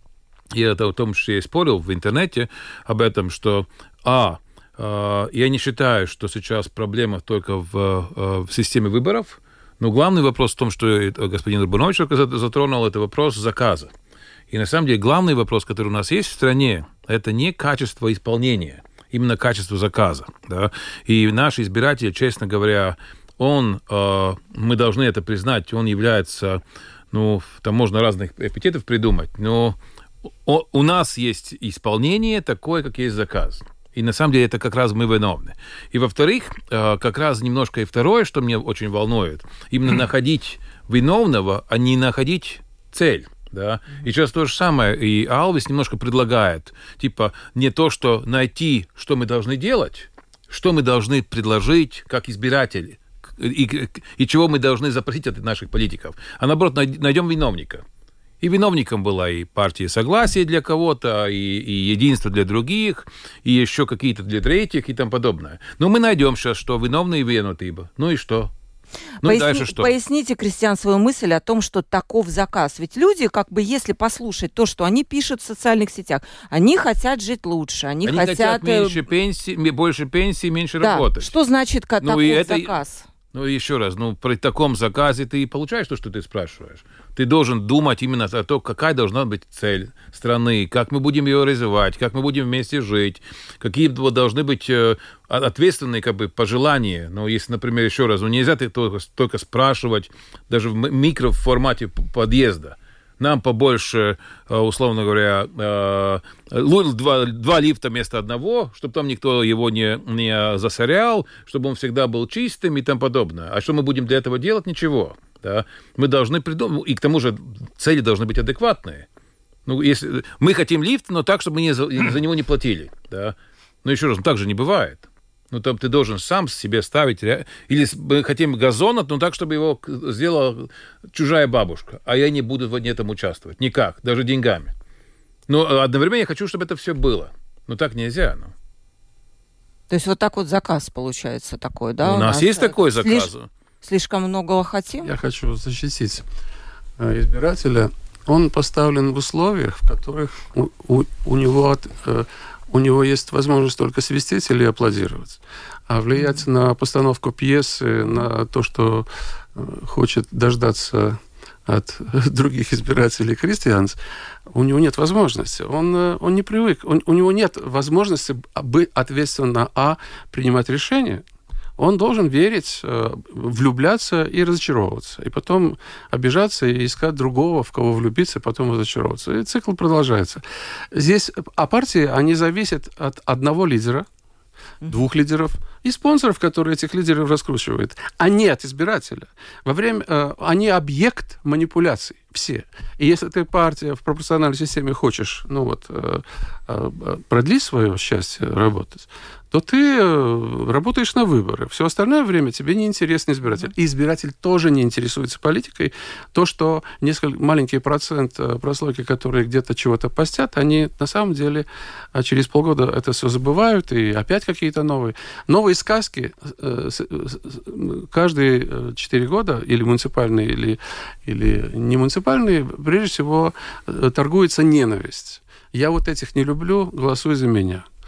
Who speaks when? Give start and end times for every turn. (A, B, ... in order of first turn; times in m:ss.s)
0:00.5-0:13.9 A
0:14.5-0:26.6 A
0:27.1-0:29.8 A
0:30.5-0:57.8 A
0:58.4-1:08.5 A
1:09.2-1:09.9 A
1:09.2-1:19.0 B
1:18.0-1:21.4 A
1:20.8-1:23.1 B
1:22.0-1:22.8 A
1:23.3-1:59.1 A
1:59.7-2:14.7 A
2:15.5-2:18.5 A
2:19.9-2:23.3 B
2:22.0-2:23.5 A
2:23.8-2:25.1 B
2:25.0-2:26.2 C
2:27.0-2:44.0 C
2:44.5-2:51.2 C
2:51.8-3:04.1 C
3:04.9-3:47.9 C